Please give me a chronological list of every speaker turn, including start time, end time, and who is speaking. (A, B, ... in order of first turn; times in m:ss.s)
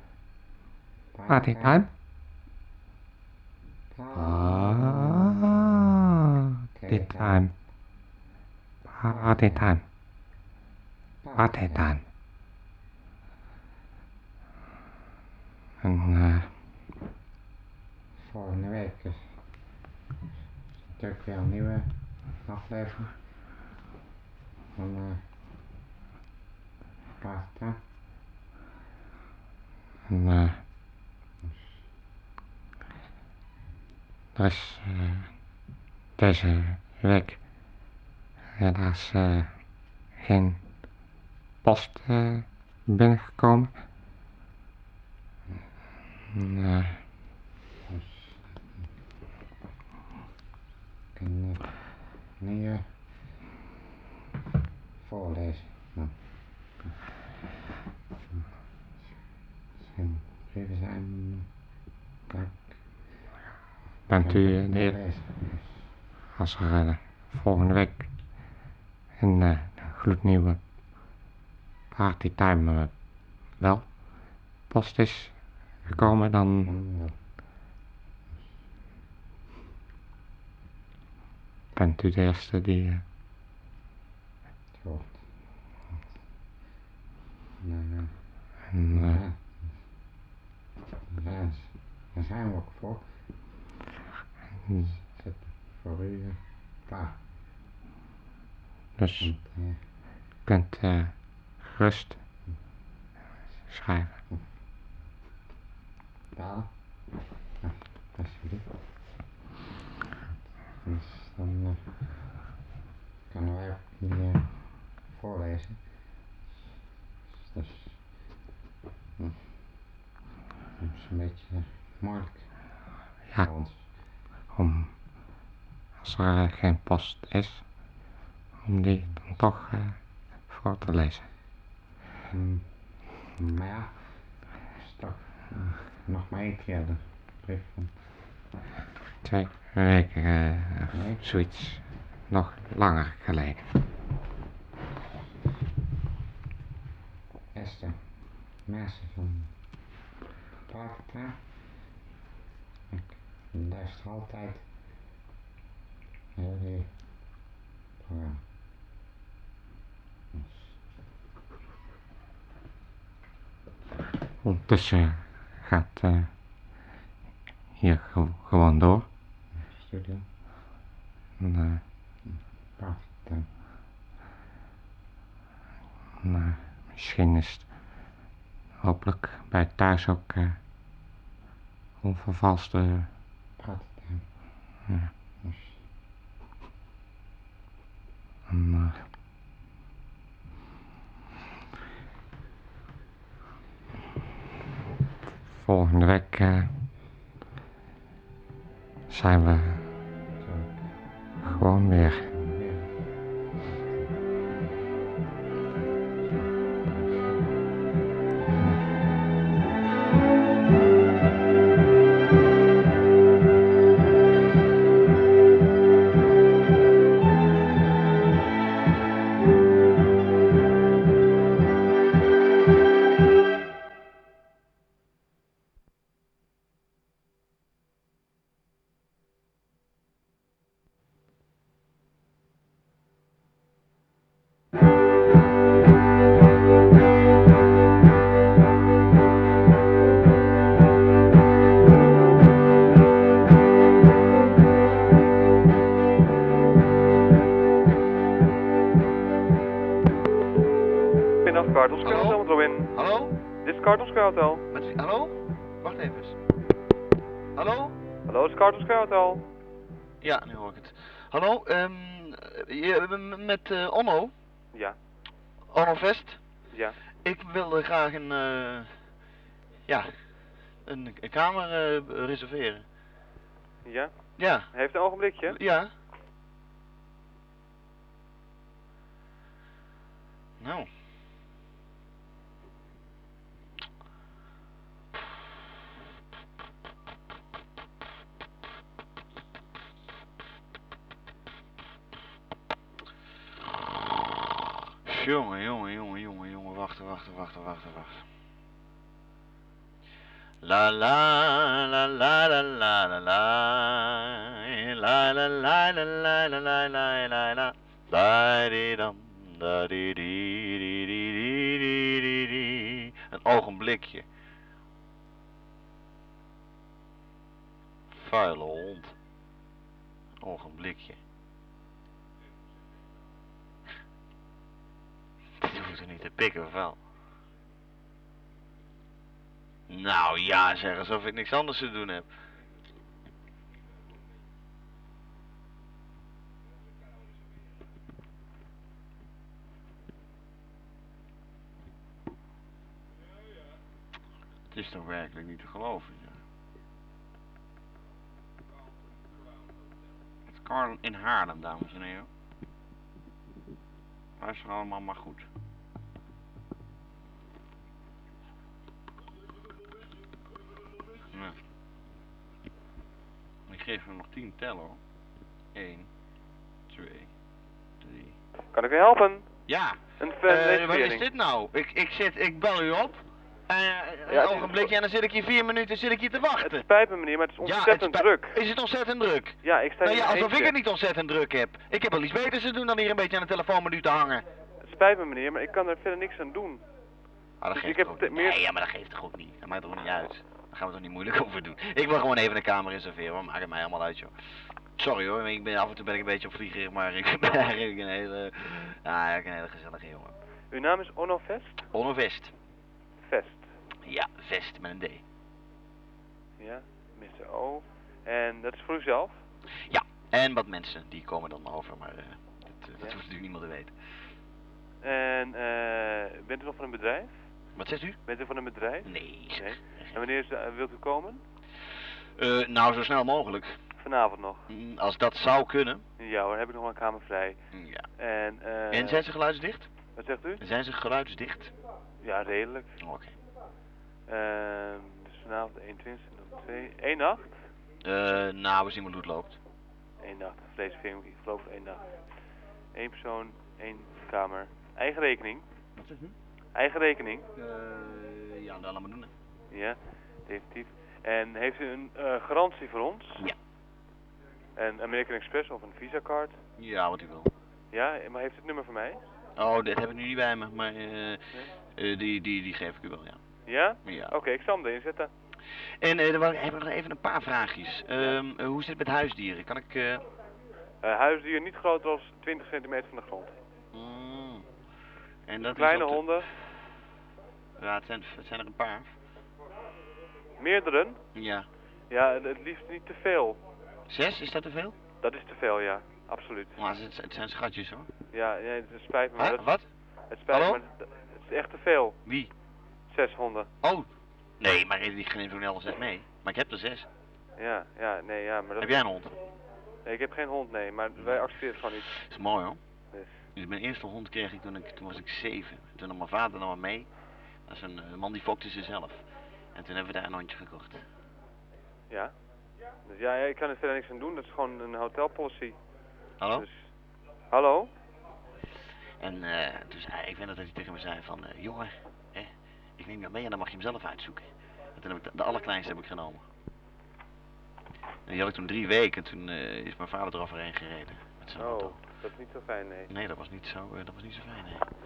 0:01.1-0:01.9 A
0:01.3-0:01.9 B
0:03.9-0:05.7 A
0:04.1-0:06.1 B
0:06.8-0:07.5 A
0:06.9-0:07.5 B
0:08.9-0:09.8 B
0:09.1-0:09.7 A
0:11.2-0:11.9 A
0:11.4-0:12.0 B
0:15.8-0:16.5 B
0:18.2-0:19.3 A
0:20.9-0:23.2 A
0:24.8-0:25.2 A
0:27.2-0:27.8 A
0:30.1-0:30.6 B
0:34.4-0:35.3 B
0:36.2-0:37.4 B
0:38.6-0:39.6 B
0:40.2-0:40.6 B
0:41.6-0:43.8 B
0:46.3-0:47.0 B
0:47.9-0:48.6 A
0:51.2-0:51.8 A
0:52.3-0:52.9 A
0:55.0-0:56.2 A
0:59.8-1:01.5 A
1:02.3-1:02.8 A
1:04.1-1:05.0 B
1:04.2-1:05.9 A
1:06.4-1:08.4 B
1:09.2-1:10.6 B
1:11.9-1:16.8 B
1:15.9-1:17.2 A
1:21.8-1:23.0 B
1:24.8-1:25.3 A
1:25.9-1:26.1 A
1:27.6-1:28.2 A
1:28.7-1:29.2 B
1:28.9-1:29.7 A
1:31.1-1:33.1 A
1:34.8-1:37.2 A
1:39.0-1:39.3 B
1:39.2-1:39.8 A
1:40.4-1:42.2 B
1:43.7-1:44.2 B
1:46.3-1:47.0 A
1:47.6-1:48.7 A
1:50.8-1:51.8 A
1:53.3-1:55.9 A
1:57.4-1:58.0 A
1:59.2-1:59.4 A
2:00.8-2:02.5 A
2:03.4-2:03.9 A
2:04.5-2:05.0 B
2:06.0-2:07.7 B
2:08.6-2:11.3 B
2:12.3-2:18.0 A
2:19.2-2:23.6 B
2:20.9-2:21.2 A
2:27.5-2:29.5 A
2:30.7-2:31.5 A
2:32.9-2:34.7 A
2:36.4-2:37.0 A
2:38.0-2:38.4 A
2:40.3-2:40.8 A
2:44.4-2:46.3 B
2:47.8-2:49.1 B
2:49.6-2:50.2 A
2:51.4-2:51.8 B
2:52.3-2:53.5 A
2:56.2-2:57.7 B
2:58.8-3:00.6 B
3:02.0-3:03.1 B
3:03.6-3:04.3 A
3:05.4-3:05.8 A
3:08.5-3:09.0 B
3:15.5-3:16.7 B
3:19.1-3:19.9 B
3:20.4-3:23.0 A
3:21.4-3:22.3 B
3:23.6-3:24.1 A
3:26.2-3:27.5 A
4:11.4-4:12.9 C
4:12.0-4:13.3 D
4:13.6-4:14.6 C
4:14.7-4:16.4 D
4:17.6-4:18.0 D
4:18.3-4:19.4 C
4:20.2-4:24.3 D
4:25.7-4:26.4 D
4:26.7-4:27.0 C
4:27.2-4:29.0 D
4:30.8-4:32.9 D
4:33.8-4:35.6 C
4:34.4-4:34.7 D
4:35.5-4:35.9 D
4:40.6-4:40.9 D
4:55.1-4:58.3 D
5:00.6-5:14.3 D
5:18.1-5:19.2 D
5:20.4-5:21.2 D
5:25.6-5:27.0 D
5:29.9-5:32.3 D
5:44.7-5:46.4 D
5:50.5-5:52.3 D
5:54.4-5:55.5 D
6:03.7-6:05.0 D
6:05.7-6:06.1 D
6:06.9-6:07.3 D
6:08.0-6:08.4 D
6:08.7-6:09.5 C
6:09.7-6:16.9 D
6:10.2-6:11.3 C
6:14.3-6:14.9 C
6:16.6-6:18.6 C
6:17.6-6:24.4 D
6:19.6-6:20.8 C
6:24.8-6:26.8 C
6:27.6-6:34.3 D
6:27.8-6:28.6 C
6:35.0-6:40.4 D
6:40.7-6:41.8 C
6:41.9-6:42.5 D
6:43.2-6:43.7 C
6:44.0-6:45.2 D
6:46.6-6:49.4 C
6:49.8-6:54.0 D
6:55.0-6:57.5 C
6:57.8-6:58.2 D
6:58.2-7:01.4 C
6:59.0-7:00.2 D
7:02.4-7:03.8 D
7:04.0-7:04.7 C
7:04.7-7:06.0 D
7:06.2-7:07.6 C
7:07.7-7:08.1 D
7:08.2-7:09.2 C
7:08.9-7:09.9 D
7:10.2-7:10.6 C
7:10.6-7:11.7 D
7:12.2-7:13.0 C
7:13.0-7:13.4 D
7:14.3-7:17.7 C
7:18.0-7:19.6 D
7:20.2-7:22.1 C
7:22.9-7:25.6 C
7:26.0-7:26.4 D
7:26.8-7:27.5 C
7:27.6-7:29.3 D
7:29.7-7:33.5 C
7:34.8-7:36.6 C
7:36.8-7:37.5 D
7:37.9-7:39.2 C
7:39.6-7:43.4 D
7:43.7-7:45.3 C
7:44.0-7:44.4 D
7:46.0-7:50.2 D
7:51.0-7:53.6 C
7:53.9-7:54.7 D
7:55.5-7:56.5 D
7:55.6-7:56.5 C
7:57.8-7:59.1 D
8:00.6-8:01.2 C
8:01.3-8:01.7 D
8:02.1-8:03.6 C
8:04.1-8:05.0 D
8:05.2-8:06.8 C
8:06.8-8:08.1 D
8:08.3-8:09.7 C
8:09.4-8:09.9 D
8:10.3-8:12.2 C
8:10.5-8:10.8 D
8:12.2-8:12.5 D
8:13.1-8:13.7 C
8:13.8-8:14.1 D
8:14.6-8:17.1 D
8:17.6-8:19.0 C
8:18.8-8:19.4 D
8:20.0-8:22.1 C
8:21.2-8:22.8 D
8:23.1-8:23.4 C
8:23.6-8:27.1 D
8:27.6-8:31.1 D
8:33.1-8:35.8 C
8:36.4-8:36.7 D
8:36.5-8:36.9 C
8:37.5-8:37.9 C
8:39.2-8:46.4 D
8:48.3-8:52.0 D
8:51.6-8:53.1 C
8:53.1-8:54.9 D